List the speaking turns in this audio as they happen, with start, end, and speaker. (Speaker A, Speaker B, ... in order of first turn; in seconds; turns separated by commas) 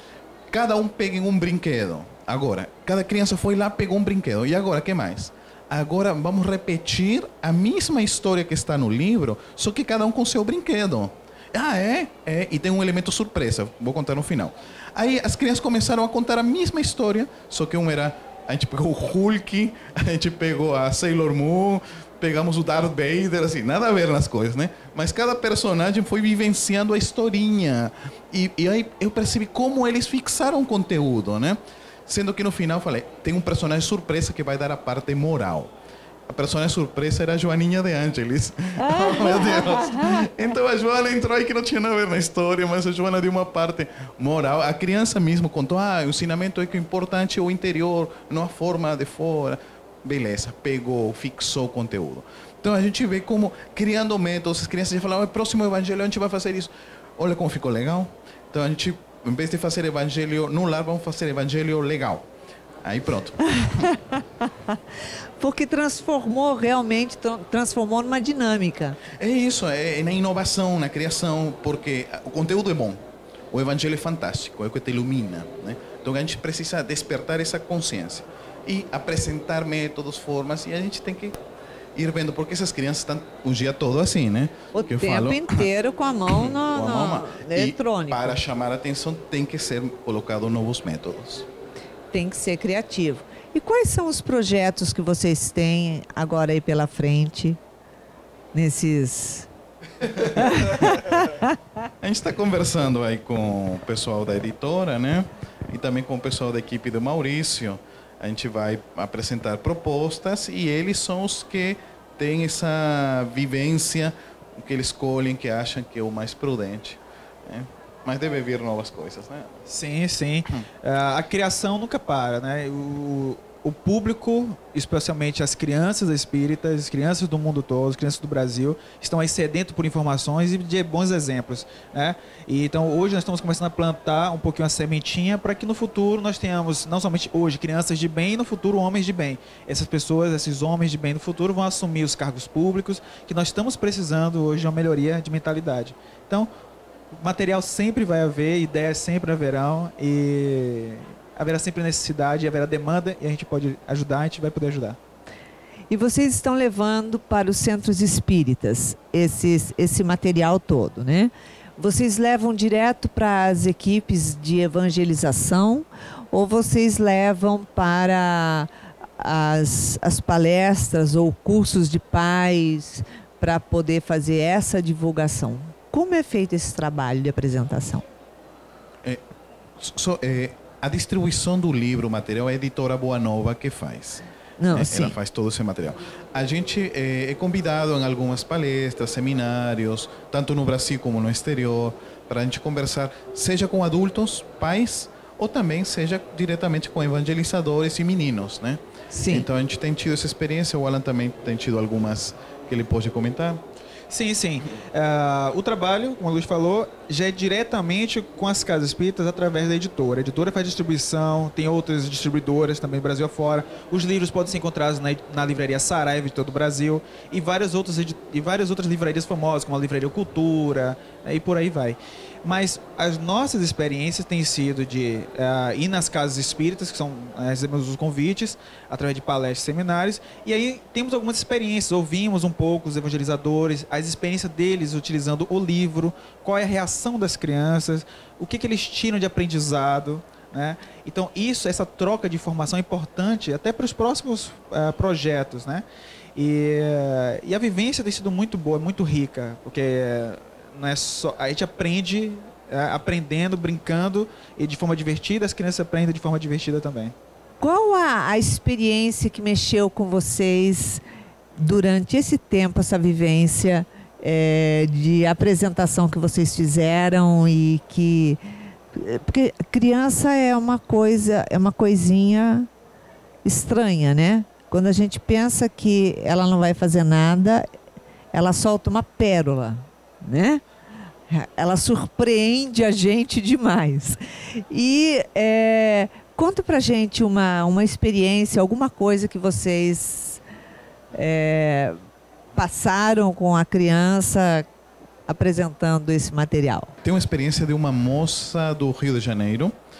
Speaker A: 0.5-35.7, Speaker A: 36.3-62.3, Speaker B: 38.9-40.3, Speaker A: 62.8-63.4, Speaker B: 63.5-64.8, Speaker B: 65.4-69.0, Speaker A: 69.1-73.0, Speaker A: 73.5-81.4, Speaker A: 81.9-85.7, Speaker B: 84.7-88.4, Speaker A: 86.3-91.5, Speaker B: 92.1-97.6, Speaker B: 98.5-99.5, Speaker B: 100.2-101.5, Speaker A: 102.0-119.6, Speaker C: 119.7-146.5, Speaker C: 147.1-155.0, Speaker B: 155.9-178.0, Speaker A: 179.8-203.6, Speaker B: 184.6-185.1, Speaker B: 199.1-199.5, Speaker C: 204.1-245.8, Speaker C: 246.3-257.1, Speaker B: 257.6-261.0, Speaker B: 261.6-268.4, Speaker B: 268.9-272.7, Speaker B: 273.4-277.6, Speaker B: 278.3-280.6, Speaker B: 281.3-290.4, Speaker B: 291.1-292.0, Speaker B: 292.6-294.7, Speaker B: 295.3-296.9, Speaker A: 297.0-299.7